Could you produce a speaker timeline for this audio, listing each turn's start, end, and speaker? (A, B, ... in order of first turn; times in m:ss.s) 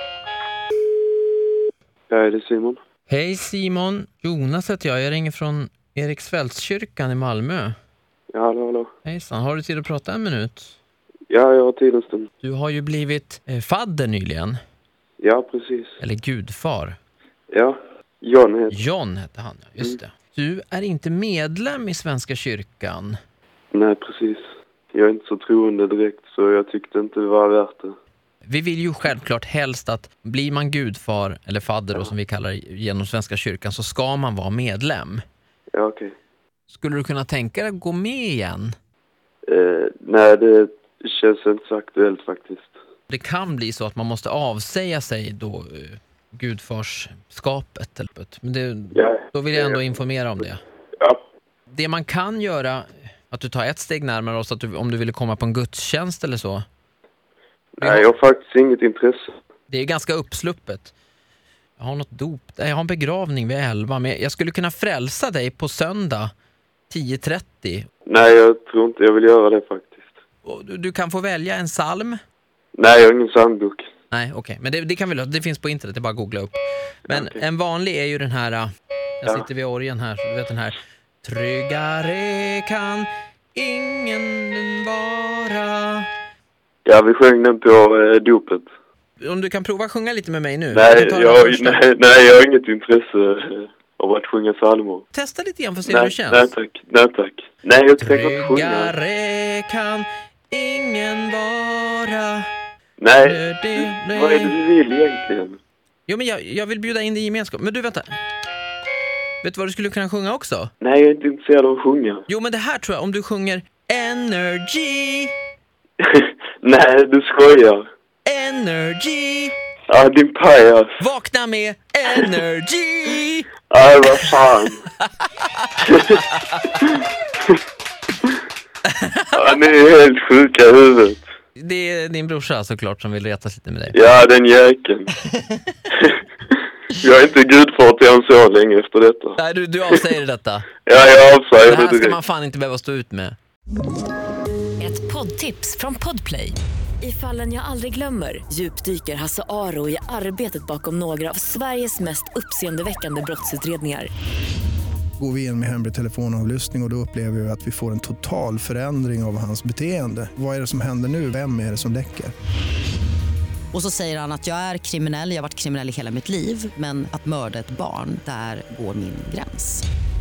0:02.1-0:02.8 A
0:03.1-0:07.7 B
0:08.3-0:08.9 A
0:09.0-0:10.7 B
0:11.3-0:12.3 A
0:12.4-0:14.6 B
0:15.2-0:16.0 A
0:16.0-0:17.0 B
0:17.5-0:18.8 A
0:18.7-0:23.2 B
0:23.7-0:27.9 A
0:28.4-0:35.2 B
0:35.7-0:36.2 A
0:36.7-0:38.7 B
0:39.5-0:42.8 A
0:43.1-0:50.6 B
0:48.9-0:49.8 A
0:51.7-0:56.6 B
0:57.8-0:59.4 A
0:57.8-0:58.1 B
0:59.7-1:00.9 B
1:01.8-1:06.3 B
1:06.9-1:07.9 B
1:08.1-1:10.1 A
1:10.4-1:12.2 B
1:12.8-1:13.8 A
1:14.1-1:18.7 B
1:17.1-1:17.4 A
1:19.2-1:26.1 B
1:26.8-1:28.7 A
1:29.2-1:31.8 B
1:30.7-1:35.0 A
1:35.1-1:36.5 B
1:35.9-1:38.9 A
1:38.0-1:42.5 B
1:43.0-1:45.6 A
1:43.2-1:44.6 B
1:46.1-1:48.1 B
1:49.4-1:50.7 B
1:50.8-1:52.2 A
1:52.3-1:55.3 B
1:56.0-1:57.8 A
1:58.2-1:59.6 B
1:59.9-2:01.0 A
2:01.0-2:03.5 B
2:03.7-2:04.8 A
2:05.6-2:06.2 B
2:08.8-2:09.3 B
2:09.3-2:11.2 A
2:11.6-2:14.0 B
2:13.9-2:15.1 A
2:16.9-2:19.4 A
2:19.4-2:20.7 B
2:20.8-2:22.2 A
2:21.6-2:23.4 B
2:24.8-2:34.1 C
2:35.2-2:42.3 D
2:43.7-2:49.8 E